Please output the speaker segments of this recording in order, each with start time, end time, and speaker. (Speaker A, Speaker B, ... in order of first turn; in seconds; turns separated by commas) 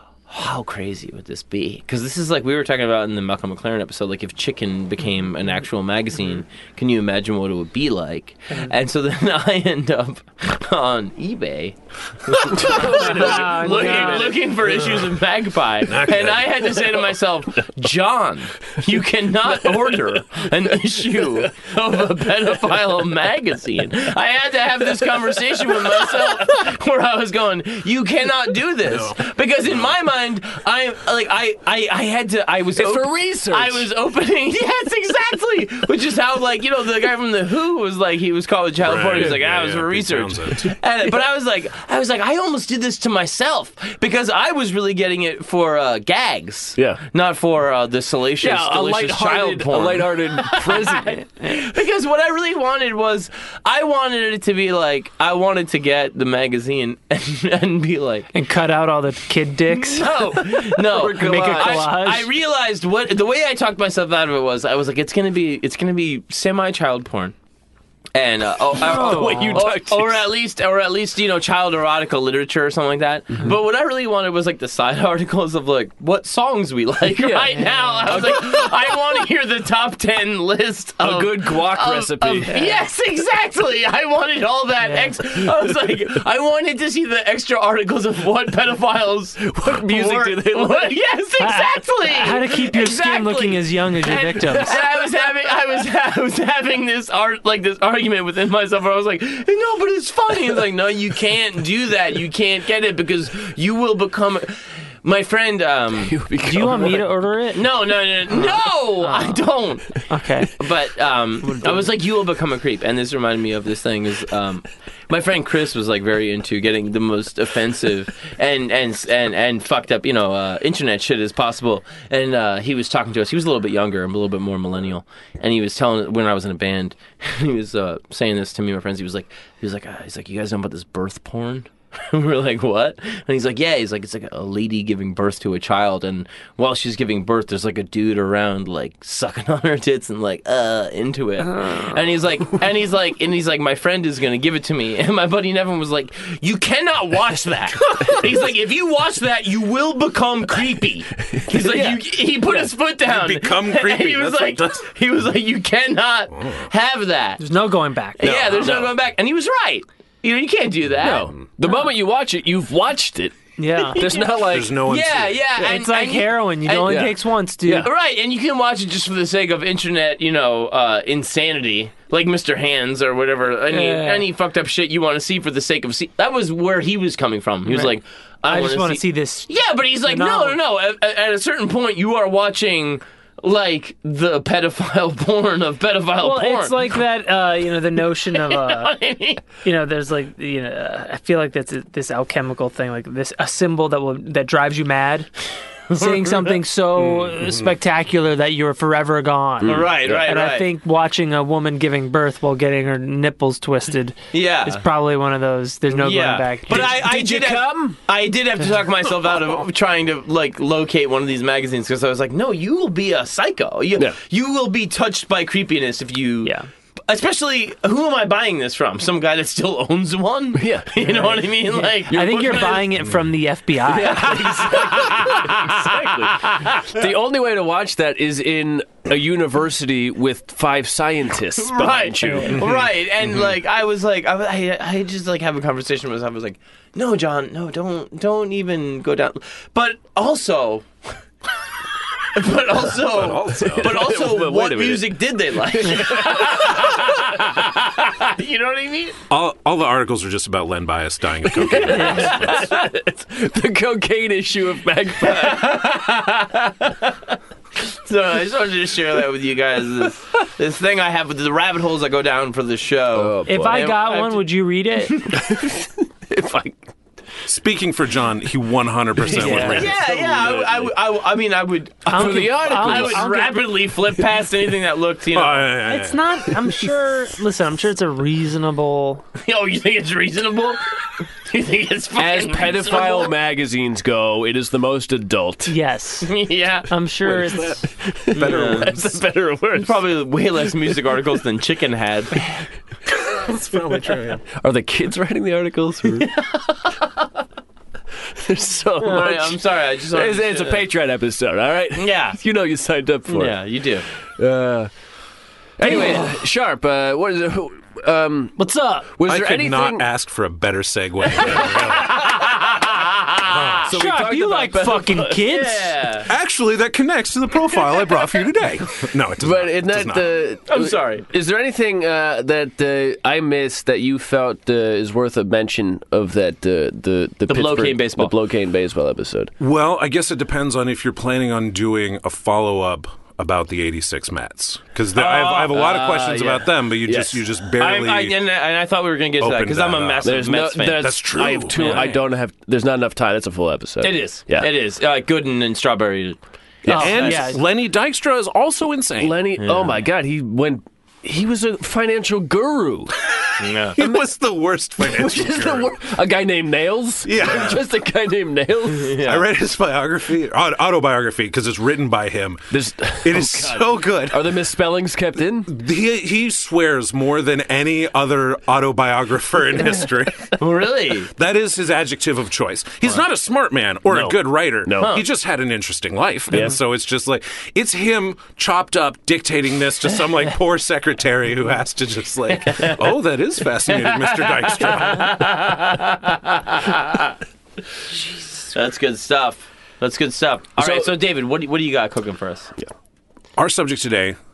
Speaker A: 0.3-58.3, Speaker B: 12.5-14.4, Speaker C: 12.7-14.4, Speaker D: 15.9-16.7, Speaker D: 28.8-29.3, Speaker B: 32.8-33.9, Speaker D: 38.8-40.7, Speaker B: 46.8-47.0, Speaker B: 48.4-51.2, Speaker C: 58.3-60.1, Speaker A: 59.7-67.3, Speaker B: 60.8-61.9, Speaker C: 61.1-62.3, Speaker A: 68.2-106.2, Speaker B: 68.7-70.2, Speaker C: 68.8-69.7, Speaker B: 77.1-78.6, Speaker B: 81.0-82.7, Speaker C: 84.8-85.1, Speaker B: 89.4-91.0, Speaker C: 91.4-94.8, Speaker B: 94.1-94.9, Speaker B: 106.0-107.1, Speaker C: 106.4-107.7, Speaker A: 107.5-157.4, Speaker C: 109.0-109.4, Speaker C: 110.0-110.6, Speaker C: 111.4-111.9, Speaker C: 141.6-141.9, Speaker B: 151.2-152.1, Speaker D: 153.1-154.8, Speaker D: 156.3-156.7, Speaker C: 157.4-158.2, Speaker A: 158.2-161.3, Speaker D: 158.2-158.9, Speaker B: 161.0-164.8, Speaker C: 163.6-164.0, Speaker A: 163.8-167.0, Speaker D: 164.4-165.4, Speaker C: 165.6-167.9, Speaker B: 166.8-167.9, Speaker A: 167.7-186.8, Speaker C: 173.7-174.3, Speaker C: 177.7-178.0, Speaker C: 178.5-180.6, Speaker C: 186.2-188.9, Speaker A: 188.3-189.4, Speaker C: 189.6-195.3, Speaker A: 195.9-196.6, Speaker C: 195.9-206.9, Speaker B: 199.6-200.3, Speaker A: 199.6-200.7, Speaker A: 204.3-204.8, Speaker A: 205.9-216.5, Speaker B: 206.7-208.0, Speaker A: 217.1-222.9, Speaker B: 220.6-221.3, Speaker C: 221.2-224.4, Speaker B: 223.9-232.8, Speaker A: 224.0-227.0, Speaker A: 231.6-240.9, Speaker D: 232.5-232.8, Speaker A: 242.3-249.2, Speaker D: 243.1-244.0, Speaker B: 243.6-247.2, Speaker D: 249.3-252.6, Speaker B: 251.5-255.7, Speaker A: 251.8-252.8, Speaker A: 255.2-264.4, Speaker B: 263.1-263.9, Speaker C: 263.5-265.3, Speaker A: 265.1-265.4, Speaker B: 265.3-266.8, Speaker D: 267.4-269.9, Speaker B: 269.2-270.9, Speaker A: 269.4-275.8, Speaker C: 269.4-269.8, Speaker C: 272.1-273.7, Speaker B: 272.1-273.4, Speaker D: 275.3-276.8, Speaker C: 275.9-279.2, Speaker A: 279.4-283.3, Speaker B: 282.2-285.8, Speaker C: 285.7-286.4, Speaker A: 286.2-286.9, Speaker C: 286.9-287.8, Speaker D: 287.3-289.2, Speaker B: 287.9-290.0, Speaker A: 288.3-289.0, Speaker A: 289.7-292.4, Speaker D: 293.1-294.4, Speaker B: 294.6-296.3, Speaker A: 296.2-297.1, Speaker B: 298.3-303.6, Speaker A: 299.0-300.9, Speaker A: 302.0-302.4, Speaker A: 303.3-304.0, Speaker B: 304.4-304.9, Speaker B: 305.8-308.6, Speaker C: 305.8-306.3, Speaker C: 308.6-309.1, Speaker B: 309.1-310.1, Speaker D: 309.3-312.3, Speaker B: 311.4-311.9, Speaker A: 311.6-313.6, Speaker D: 313.4-313.9, Speaker B: 313.8-315.8, Speaker C: 313.9-316.0, Speaker A: 315.4-316.3, Speaker D: 316.3-320.3, Speaker B: 319.4-329.5, Speaker A: 320.7-321.2, Speaker A: 327.5-328.3, Speaker D: 329.6-338.4, Speaker A: 335.1-336.6, Speaker B: 335.6-337.4, Speaker A: 337.8-342.2, Speaker D: 339.4-342.2, Speaker B: 340.2-344.7, Speaker A: 344.0-346.4, Speaker B: 346.8-347.3, Speaker C: 346.9-347.6, Speaker D: 346.9-349.4, Speaker A: 347.0-347.5, Speaker B: 349.2-353.1, Speaker A: 349.6-350.0, Speaker A: 353.6-354.0, Speaker D: 354.0-355.9, Speaker B: 355.0-359.2, Speaker D: 357.2-357.8, Speaker A: 359.0-359.4, Speaker D: 359.2-364.4, Speaker B: 362.7-365.7, Speaker D: 365.7-370.6, Speaker A: 370.6-371.3, Speaker D: 371.3-385.4, Speaker B: 374.1-375.2, Speaker A: 375.0-375.2, Speaker B: 376.5-376.8, Speaker A: 382.6-383.0, Speaker A: 383.9-387.4, Speaker A: 388.7-392.7, Speaker B: 390.8-391.1, Speaker D: 393.6-394.4